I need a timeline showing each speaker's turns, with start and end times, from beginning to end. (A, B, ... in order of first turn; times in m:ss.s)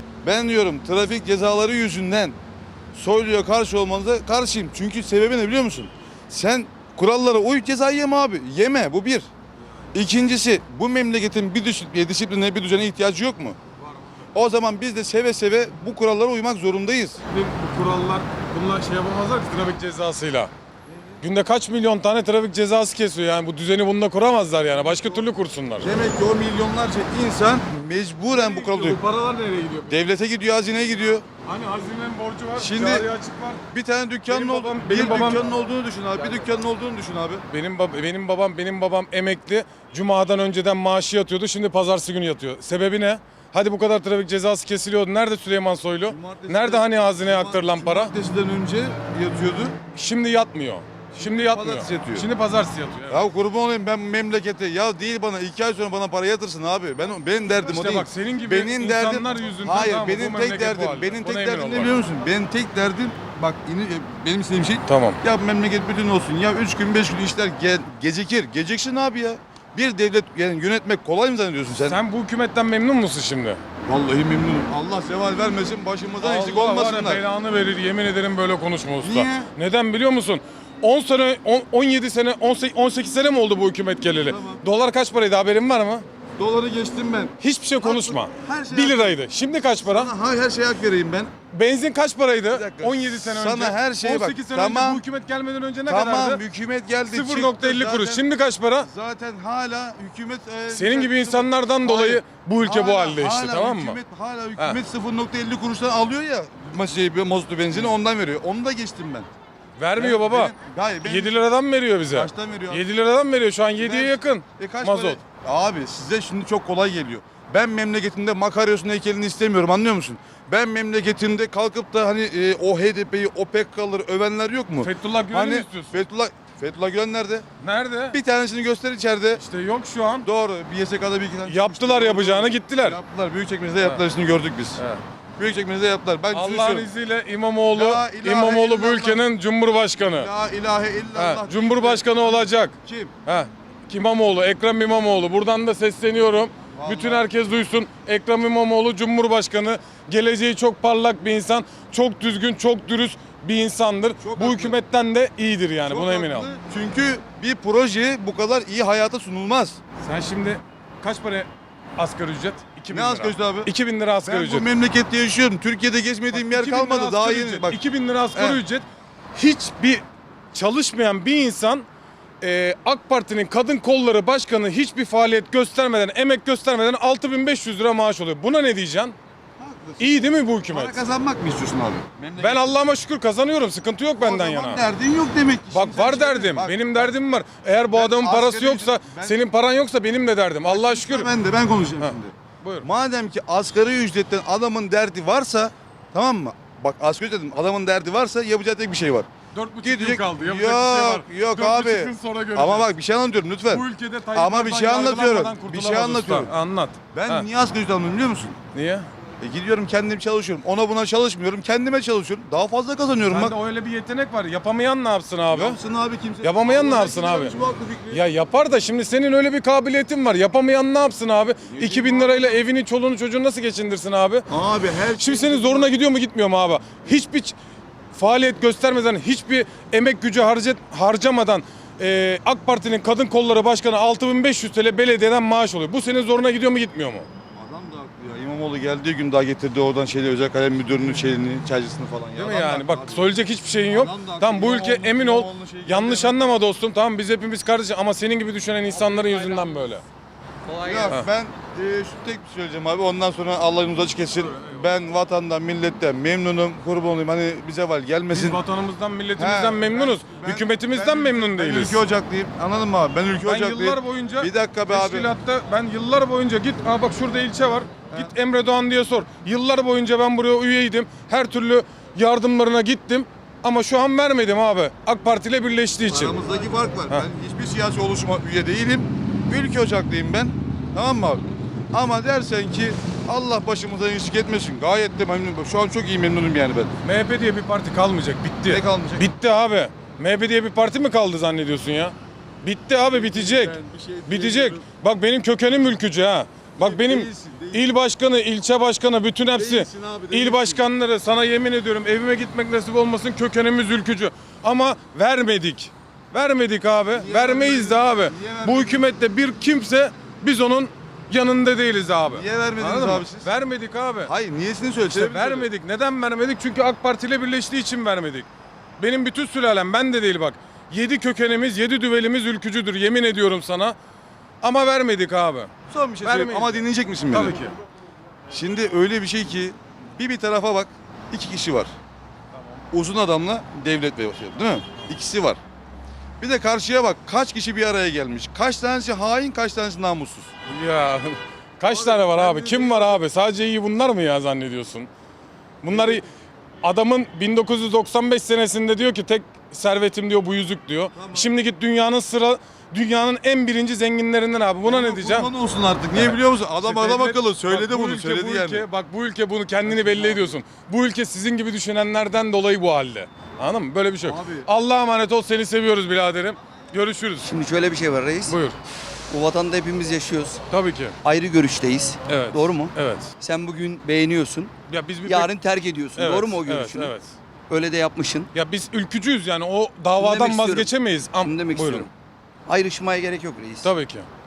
0:00.2-0:02.4 A
0:03.0-0:09.3 A
0:09.9-0:13.6 A
0:14.3-0:17.2 A
0:17.3-0:20.5 B
0:21.2-0:25.9 B
0:25.0-0:25.2 A
0:25.8-0:29.0 A
0:28.3-0:30.0 B
0:29.9-0:31.3 A
0:31.4-0:33.6 B
0:32.6-0:33.1 A
0:33.7-0:37.4 A
0:34.3-0:35.5 B
0:37.5-0:48.1 B
0:46.1-0:49.8 A
0:49.9-0:53.3 B
0:51.4-0:52.3 A
0:53.1-1:12.0 A
0:57.6-1:02.0 B
1:04.9-1:05.2 B
1:11.8-1:13.6 B
1:13.9-1:17.2 A
1:16.2-1:26.0 B
1:19.0-1:19.5 A
1:24.2-1:24.6 A
1:26.4-1:29.2 A
1:27.4-1:30.1 B
1:29.8-1:31.3 A
1:31.5-1:36.4 B
1:32.5-1:35.0 A
1:35.9-1:38.2 A
1:37.1-1:38.9 B
1:38.8-1:49.3 A
1:40.7-1:44.0 B
1:49.8-1:55.2 B
1:50.0-1:51.4 A
1:52.1-1:52.8 A
1:53.8-2:07.5 A
2:04.8-2:06.0 B
2:07.6-2:08.2 B
2:08.1-2:09.4 A
2:09.4-2:10.3 B
2:10.2-2:14.8 A
2:11.5-2:13.0 B
2:14.8-2:15.0 B
2:15.4-2:16.9 A
2:16.3-2:20.3 B
2:17.7-2:19.2 A
2:20.0-2:23.1 A
2:21.2-2:22.8 B
2:23.3-2:36.5 B
2:26.7-2:27.3 A
2:34.2-2:34.8 A
2:35.8-2:39.8 A
2:40.0-2:44.7 B
2:42.9-2:43.7 A
2:44.3-2:47.8 A
2:46.3-2:51.9 B
2:48.3-2:48.6 A
2:52.4-2:59.2 B
2:59.6-3:02.8 A
3:00.0-3:01.0 B
3:02.4-3:04.8 B
3:04.2-3:07.1 A
3:05.7-3:11.3 B
3:07.9-3:09.4 A
3:10.7-3:19.3 A
3:12.0-3:12.9 B
3:19.5-3:22.9 B
3:19.8-3:26.5 A
3:23.7-3:27.5 B
3:27.1-3:28.6 A
3:28.7-3:29.1 B
3:29.4-3:33.6 A
3:33.3-3:35.8 B
3:35.5-3:38.2 A
3:36.4-3:37.5 B
3:38.1-3:44.4 B
3:41.7-3:42.6 A
3:44.5-3:45.9 A
3:45.2-3:47.6 B
3:48.1-3:57.3 B
3:57.6-4:03.3 A
4:02.4-4:10.0 B
4:03.9-4:06.4 A
4:08.9-4:09.7 C
4:10.7-4:11.2 C
4:10.8-4:18.6 A
4:14.5-4:14.8 B
4:18.3-4:22.0 B
4:19.4-4:25.3 A
4:23.4-4:36.4 B
4:36.1-4:46.9 A
4:47.0-5:14.3 B
4:48.7-4:49.2 A
4:53.1-4:54.8 A
4:56.8-4:58.0 A
4:59.5-5:00.8 A
5:07.1-5:09.1 A
5:12.3-5:13.5 A
5:14.2-5:15.7 A
5:15.0-5:18.5 B
5:19.0-5:24.0 B
5:24.6-5:27.7 B
5:25.9-5:27.6 A
5:28.5-5:31.9 A
5:32.9-5:35.6 A
5:36.4-5:40.5 A
5:40.7-5:45.1 B
5:41.8-5:43.2 A
5:45.8-5:46.2 B
5:45.9-5:46.2 A
5:46.8-5:55.5 B
5:51.2-5:51.5 A
5:54.8-5:58.8 A
5:56.2-6:07.5 B
5:59.9-6:00.5 A
6:04.2-6:04.7 A
6:07.4-6:08.6 C
6:08.5-6:08.8 B
6:09.3-6:10.6 C
6:10.7-6:11.2 B
6:11.2-6:14.7 C
6:12.3-6:13.3 B
6:14.9-6:15.5 B
6:15.2-6:17.1 C
6:16.2-6:17.3 B
6:17.7-6:18.5 C
6:18.5-6:22.1 B
6:20.2-6:22.1 C
6:22.7-6:23.9 C
6:23.8-6:24.3 B